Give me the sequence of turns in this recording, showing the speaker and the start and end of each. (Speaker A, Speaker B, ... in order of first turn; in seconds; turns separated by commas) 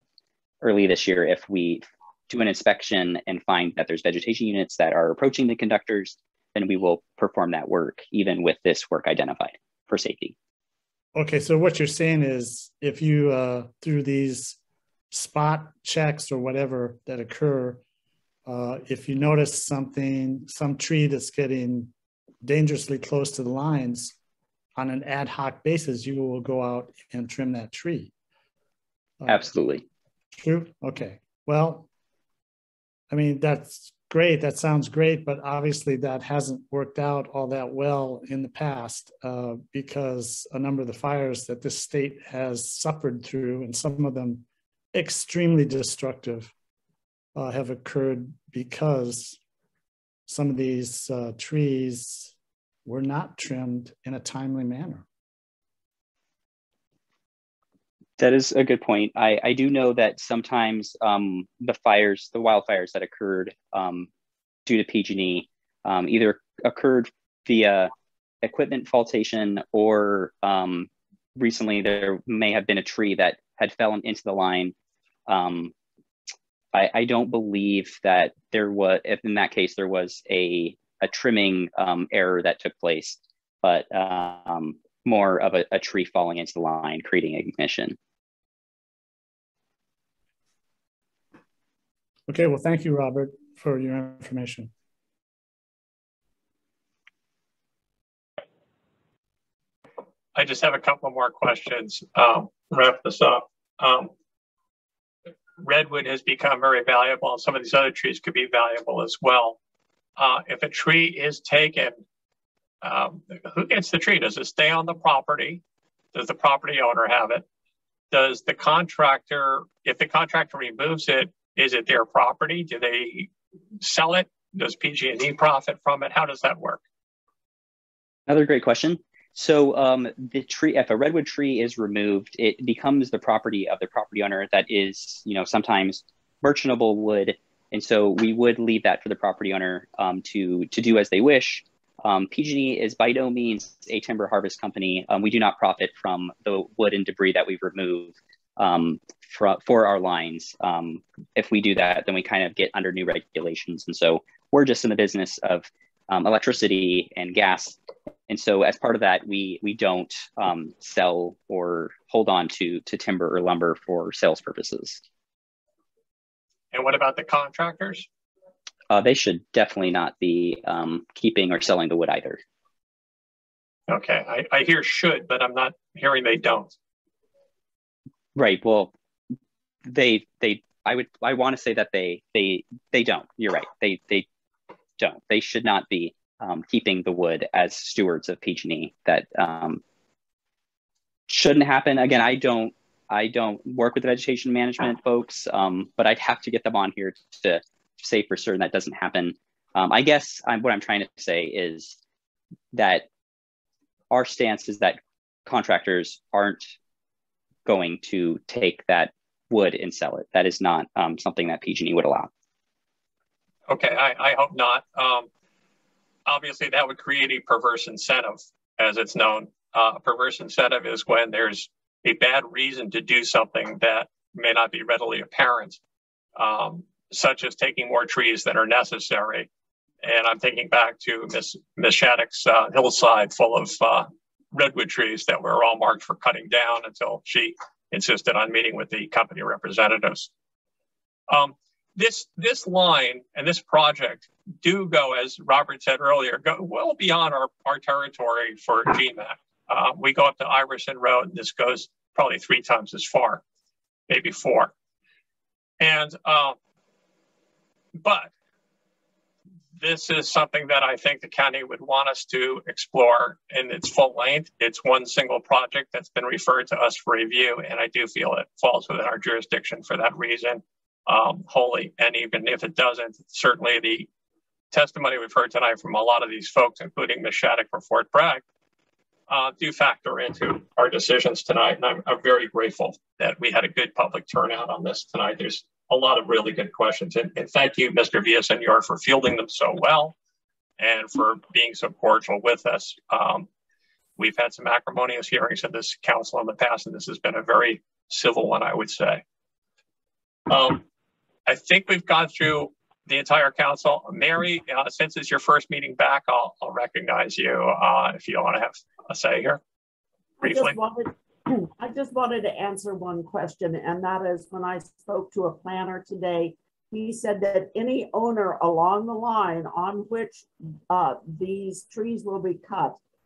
Speaker A: 0.6-10.3, Speaker B: 11.2-14.6, Speaker B: 15.1-17.8, Speaker B: 18.5-21.9, Speaker B: 22.4-24.1, Speaker B: 24.8-28.1, Speaker A: 29.3-29.9, Speaker B: 30.4-31.9, Speaker B: 33.1-46.5, Speaker B: 47.4-49.4, Speaker B: 50.3-52.3, Speaker B: 52.9-55.1, Speaker A: 58.2-64.1, Speaker A: 64.7-67.9, Speaker A: 68.4-74.8, Speaker A: 75.3-75.7, Speaker A: 76.7-88.0, Speaker B: 92.3-94.7, Speaker C: 100.3-104.1, Speaker C: 105.6-109.6, Speaker C: 110.2-112.0, Speaker C: 112.8-115.6, Speaker C: 116.1-117.5, Speaker C: 118.1-126.8, Speaker A: 128.3-165.0, Speaker C: 166.7-168.1, Speaker A: 168.9-172.4, Speaker C: 173.9-176.8, Speaker A: 178.3-178.9, Speaker A: 179.9-184.3, Speaker A: 185.0-189.8, Speaker A: 191.3-202.0, Speaker A: 202.7-203.1, Speaker A: 204.1-206.8, Speaker A: 207.7-212.3, Speaker C: 213.7-215.3, Speaker C: 216.3-225.8, Speaker C: 226.4-229.5, Speaker C: 230.0-240.3, Speaker C: 241.3-253.4, Speaker C: 254.1-254.7, Speaker C: 255.8-256.6, Speaker C: 257.9-258.3, Speaker C: 259.8-274.1, Speaker C: 274.7-278.4, Speaker C: 279.3-290.1, Speaker C: 290.8-293.5, Speaker C: 294.2-299.2, Speaker C: 300.5-300.8, Speaker C: 301.5-309.6, Speaker D: 310.4-323.0, Speaker C: 310.4-310.8